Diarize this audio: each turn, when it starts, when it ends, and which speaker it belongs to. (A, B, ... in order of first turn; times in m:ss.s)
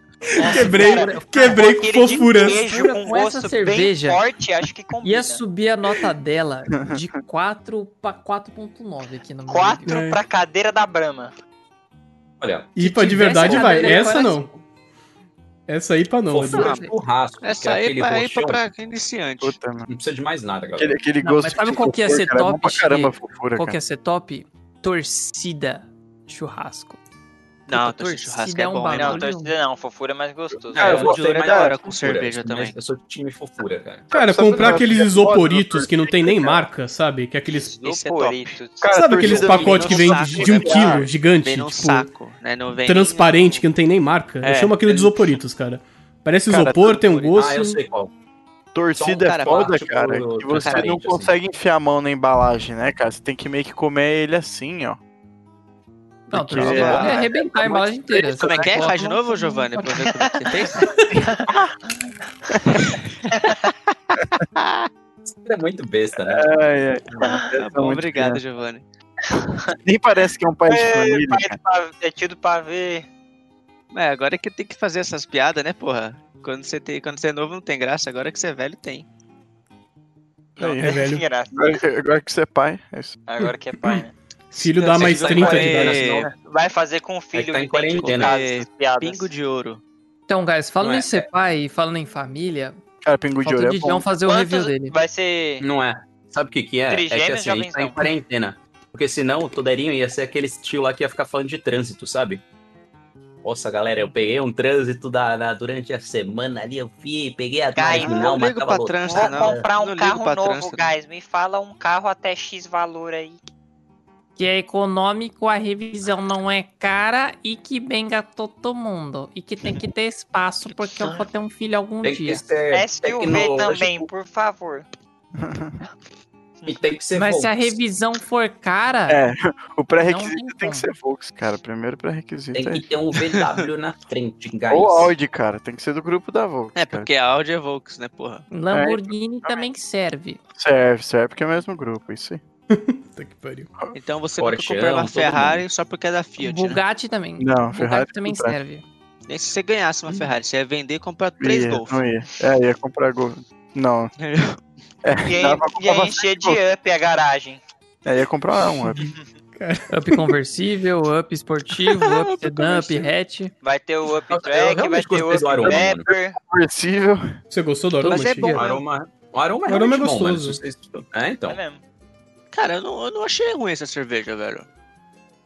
0:00.3-0:02.6 A
0:00.4-0:05.4 B
0:00.5-0:04.2 C
0:05.0-0:10.1 C
0:06.8-0:07.0 D
0:09.5-0:11.3 B
0:09.9-0:10.2 A
0:12.4-0:14.2 E
0:12.8-0:14.5 A
0:12.8-0:14.5 C
0:15.7-0:16.7 A
0:16.3-0:18.6 E
0:16.5-0:16.9 F
0:16.5-0:16.9 C
0:17.4-0:19.6 F
0:19.4-0:19.9 D
0:19.9-0:21.0 E
0:20.8-0:23.8 D
0:21.2-0:27.0 C
0:27.7-0:29.3 F
0:27.7-0:29.5 C
0:28.9-0:31.1 B
0:30.7-0:34.1 E
0:30.7-0:31.8 D
0:30.7-0:32.7 F
0:34.1-0:36.7 D
0:34.1-0:37.7 A
0:37.5-0:38.9 B
0:37.8-0:38.6 F
0:38.8-0:41.1 D
0:38.9-0:42.1 A
0:39.2-0:43.6 F
0:42.8-0:47.8 A
0:44.4-0:45.1 F
0:46.5-0:47.1 D
0:47.0-0:47.3 F
0:47.4-0:48.1 E
0:48.7-0:55.0 D
0:49.0-0:51.3 E
0:49.0-0:49.8 F
0:50.5-0:51.0 F
0:56.3-1:00.2 C
0:56.3-0:58.9 D
0:56.5-0:57.3 F
0:58.4-1:00.9 F
1:01.1-1:01.7 D
1:03.3-1:03.6 B
1:05.2-1:06.6 E
1:06.2-1:08.4 D
1:07.6-1:08.8 F
1:09.3-1:09.7 B
1:09.8-1:11.6 D
1:10.7-1:13.1 B
1:13.9-1:19.0 F
1:20.6-1:21.0 D
1:20.6-1:21.8 B
1:20.8-1:21.2 A
1:21.5-1:23.2 D
1:23.3-1:24.1 B
1:24.5-1:26.0 A
1:24.5-1:26.3 F
1:24.9-1:26.3 E
1:25.6-1:29.3 B
1:27.3-1:28.4 E
1:28.0-1:29.8 F
1:30.3-1:32.8 C
1:30.8-1:31.3 E
1:33.0-1:34.0 D
1:33.4-1:35.0 C
1:34.2-1:35.6 B
1:35.6-1:42.4 E
1:36.9-1:38.1 B
1:43.4-1:49.6 E
1:47.7-1:48.3 B
1:47.9-1:50.9 F
1:49.1-1:53.4 B
1:54.4-2:02.5 C
2:02.0-2:04.1 E
2:02.7-2:04.8 B
2:05.4-2:05.8 D
2:06.6-2:07.8 E
2:07.1-2:09.2 C
2:09.1-2:12.8 D
2:10.0-2:10.9 C
2:12.5-2:15.1 E
2:14.7-2:17.1 D
2:16.7-2:18.5 F
2:18.5-2:20.4 C
2:18.7-2:19.6 D
2:20.6-2:22.4 D
2:22.7-2:23.7 A
2:23.9-2:26.8 F
2:24.4-2:25.6 E
2:26.4-2:28.8 C
2:27.4-2:28.6 D
2:29.3-2:32.0 F
2:31.4-2:34.1 D
2:34.2-2:34.6 F
2:35.0-2:36.6 D
2:35.3-2:37.6 B
2:38.0-2:39.1 D
2:39.6-2:40.3 A
2:39.9-2:43.5 C
2:42.0-2:43.1 F
2:43.6-2:46.4 B
2:44.3-2:46.1 E
2:45.6-2:47.4 D
2:47.5-2:48.6 A
2:48.0-2:48.7 F
2:48.5-2:51.6 E
2:49.7-2:50.6 A
2:51.5-2:51.8 B
2:52.5-2:54.6 F